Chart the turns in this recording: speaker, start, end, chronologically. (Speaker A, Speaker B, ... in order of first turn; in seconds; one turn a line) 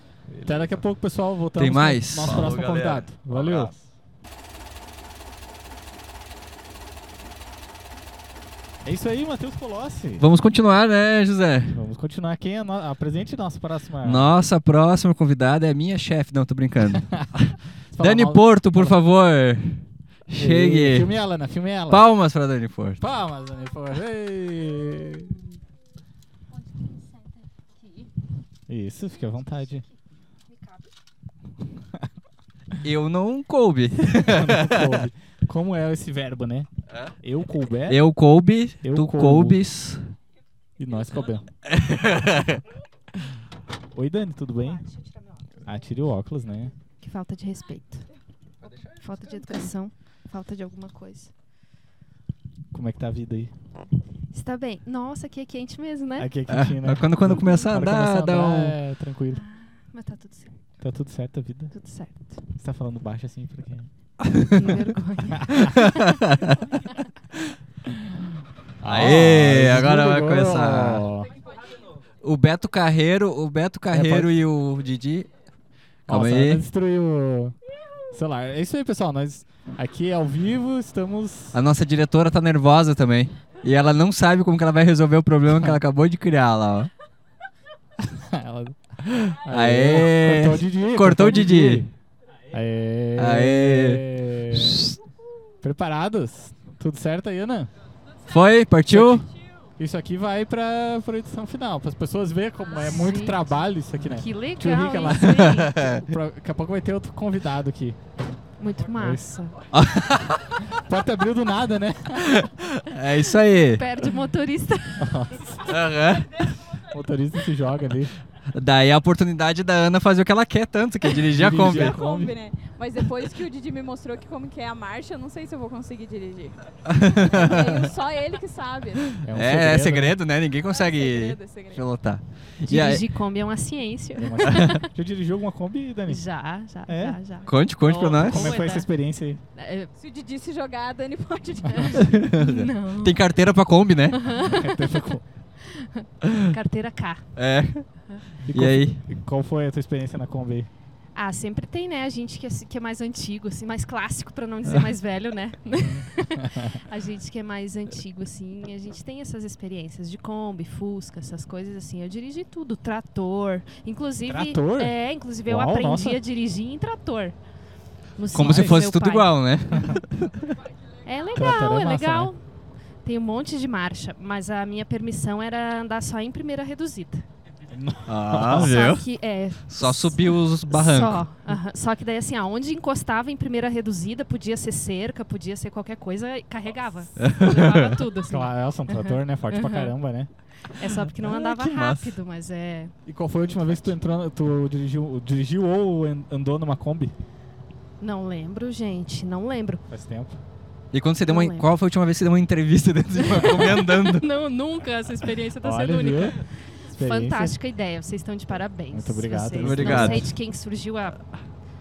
Speaker A: 0.3-0.9
Speaker B: 0.4-3.7
Speaker C: 1.6-2.5
Speaker A: 2.2-3.9
Speaker B: 8.8-10.2
Speaker C: 10.2-11.8
Speaker B: 11.7-14.3
Speaker C: 14.0-21.1
Speaker B: 17.9-19.0
Speaker B: 20.4-22.0
Speaker C: 21.9-23.0
Speaker B: 23.0-25.4
Speaker B: 28.7-29.8
Speaker C: 32.8-35.0
Speaker B: 34.2-36.7
Speaker B: 37.2-38.0
Speaker C: 37.9-40.1
Speaker B: 38.8-39.6
Speaker B: 40.8-41.5
Speaker C: 41.7-42.6
Speaker B: 43.9-44.8
Speaker B: 45.6-46.7
Speaker D: 47.0-48.1
Speaker D: 48.9-51.3
Speaker B: 52.7-53.5
Speaker D: 54.3-56.3
Speaker B: 56.2-59.4
Speaker C: 56.5-58.8
Speaker D: 59.3-60.5
Speaker B: 60.8-61.7
Speaker D: 61.7-62.4
Speaker B: 62.6-63.9
Speaker C: 64.3-64.7
Speaker D: 64.5-66.1
Speaker B: 65.4-65.7
Speaker C: 65.8-66.6
Speaker B: 67.9-68.2
Speaker B: 68.8-71.3
Speaker C: 68.8-71.0
Speaker C: 72.2-75.3
Speaker B: 73.9-74.3
Speaker C: 76.1-76.6
Speaker B: 76.1-77.5
Speaker B: 78.1-81.6
Speaker C: 81.5-86.9
Speaker B: 88.0-88.8
Speaker C: 89.3-91.9
Speaker B: 89.4-91.9
Speaker B: 92.5-94.8
Speaker C: 93.2-95.0
Speaker B: 95.6-97.7
Speaker C: 98.3-99.2
Speaker B: 98.9-99.2
Speaker B: 99.8-108.0
Speaker D: 102.7-103.5
Speaker D: 104.1-106.0
Speaker C: 105.5-106.0
Speaker D: 108.6-109.6
Speaker B: 108.9-109.2
Speaker C: 109.7-110.6
Speaker B: 110.7-112.4
Speaker C: 112.4-113.8
Speaker D: 113.6-115.1
Speaker B: 115.0-115.6
Speaker C: 115.7-116.4
Speaker B: 116.9-118.1
Speaker C: 118.5-122.0
Speaker B: 121.3-122.3
Speaker E: 121.5-126.5
Speaker C: 126.9-127.9
Speaker E: 127.2-129.1
Speaker B: 129.2-130.2
Speaker C: 129.2-133.0
Speaker E: 130.7-131.8
Speaker D: 132.7-134.9
Speaker B: 134.2-136.2
Speaker D: 136.1-138.9
Speaker B: 136.8-137.2
Speaker C: 137.5-138.6
Speaker B: 138.2-139.4
Speaker D: 139.5-139.9
Speaker E: 139.9-142.2
Speaker D: 141.7-143.2
Speaker C: 142.0-144.2
Speaker D: 144.1-144.8
Speaker B: 144.4-145.2
Speaker D: 145.7-147.3
Speaker C: 147.3-147.9
Speaker B: 148.4-150.7
Speaker C: 148.5-149.0
Speaker D: 151.1-167.4
Speaker B: 155.8-156.8
Speaker B: 164.3-164.9
Speaker B: 165.4-166.2
Speaker D: 168.2-169.4
Speaker C: 168.3-170.3
Speaker B: 168.4-168.8
Speaker B: 169.7-170.0
Speaker D: 171.0-172.4
Speaker B: 171.3-172.3
Speaker D: 173.0-177.2
Speaker B: 177.7-178.7
Speaker C: 178.1-179.1
Speaker D: 178.5-189.9
Speaker C: 179.7-181.2
Speaker C: 187.2-188.0
Speaker B: 188.3-190.3
Speaker D: 190.8-192.9
Speaker C: 191.2-192.2
Speaker B: 193.1-197.1
Speaker D: 198.0-199.8
Speaker B: 199.9-200.4
Speaker C: 200.9-204.2
Speaker D: 201.2-201.7
Speaker D: 203.2-211.2
Speaker B: 205.6-206.4
Speaker B: 206.9-207.6
Speaker B: 208.9-210.3
Speaker C: 209.6-210.3